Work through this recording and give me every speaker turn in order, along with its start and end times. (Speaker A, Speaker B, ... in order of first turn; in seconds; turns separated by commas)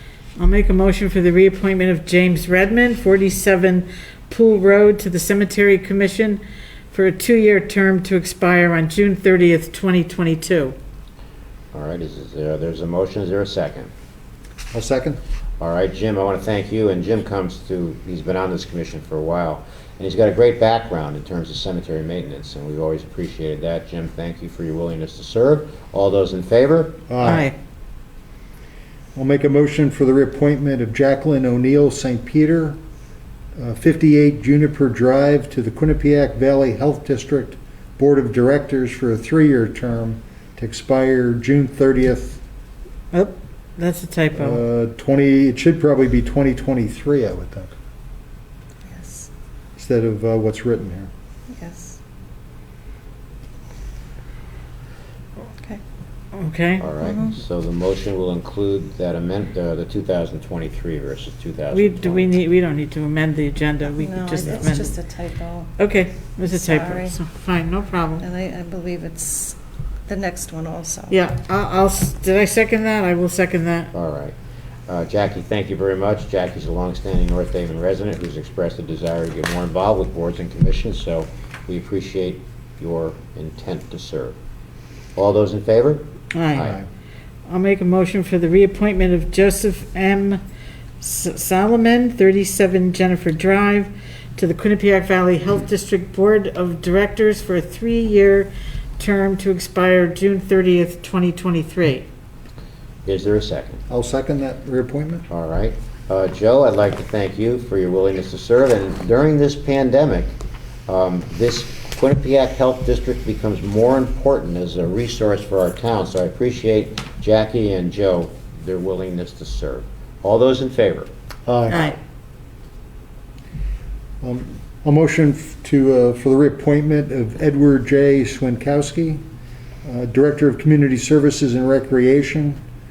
Speaker A: 0.4-10.8, Speaker B: 11.7-13.9, Speaker C: 14.7-15.2, Speaker B: 15.6-27.5, Speaker C: 27.1-27.5, Speaker A: 27.2-27.5, Speaker C: 29.1-32.8, Speaker C: 33.6-42.4, Speaker A: 43.1-44.6, Speaker C: 44.4-47.7, Speaker D: 48.9-49.3, Speaker C: 49.8-51.1, Speaker D: 51.5-52.0, Speaker A: 56.4-56.9, Speaker B: 56.8-62.4, Speaker D: 57.0-57.4, Speaker A: 61.7-64.9, Speaker D: 63.9-65.8, Speaker A: 65.8-68.2, Speaker D: 66.5-67.2, Speaker D: 68.2-69.6, Speaker D: 70.1-71.2, Speaker A: 71.1-73.9, Speaker B: 73.9-74.3, Speaker B: 74.9-84.4, Speaker B: 85.2-86.8, Speaker A: 86.3-86.7, Speaker C: 86.6-86.9, Speaker A: 87.5-90.4, Speaker A: 91.0-102.0, Speaker B: 103.1-103.8, Speaker C: 103.9-105.3, Speaker B: 105.3-110.3, Speaker B: 110.9-121.1, Speaker C: 121.5-122.0, Speaker A: 121.7-122.0, Speaker C: 124.2-129.2, Speaker C: 129.8-132.6